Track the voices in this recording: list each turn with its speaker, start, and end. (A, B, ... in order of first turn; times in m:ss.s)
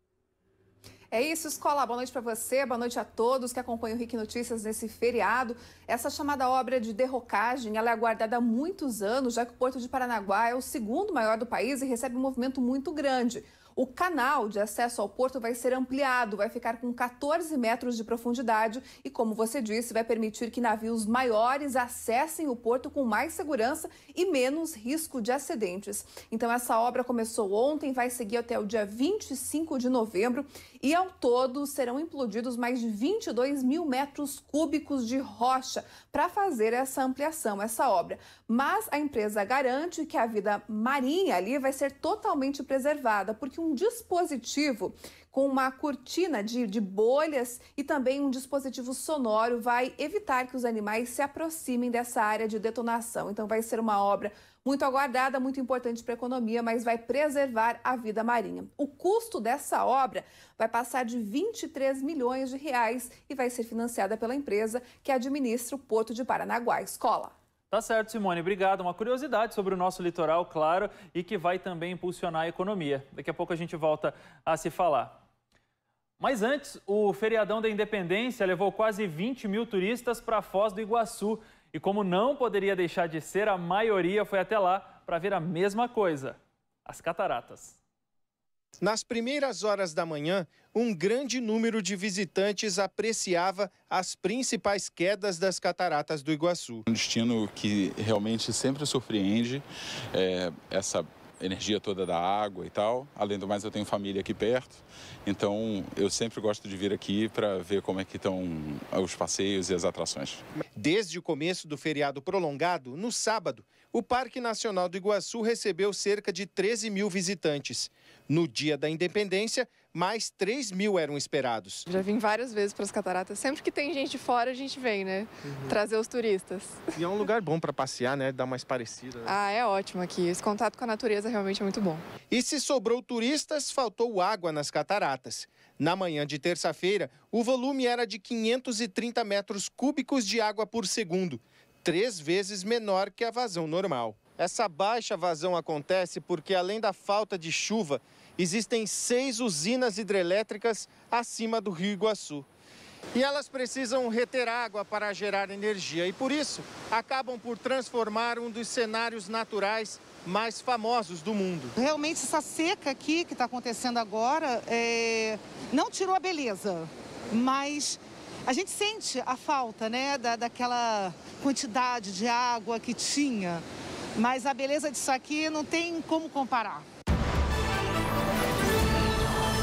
0:01.1-1:07.3 A
1:07.7-1:15.2 B
1:16.2-1:27.8 B
1:28.8-1:36.8 C
1:36.9-1:50.4 D
1:50.8-2:01.8 C
2:01.9-2:06.9 E
2:07.0-2:09.3 C
2:09.3-2:12.0 E
2:12.3-2:32.5 C
2:33.1-2:41.8 C
2:41.8-2:53.6 F
2:54.2-2:56.8 F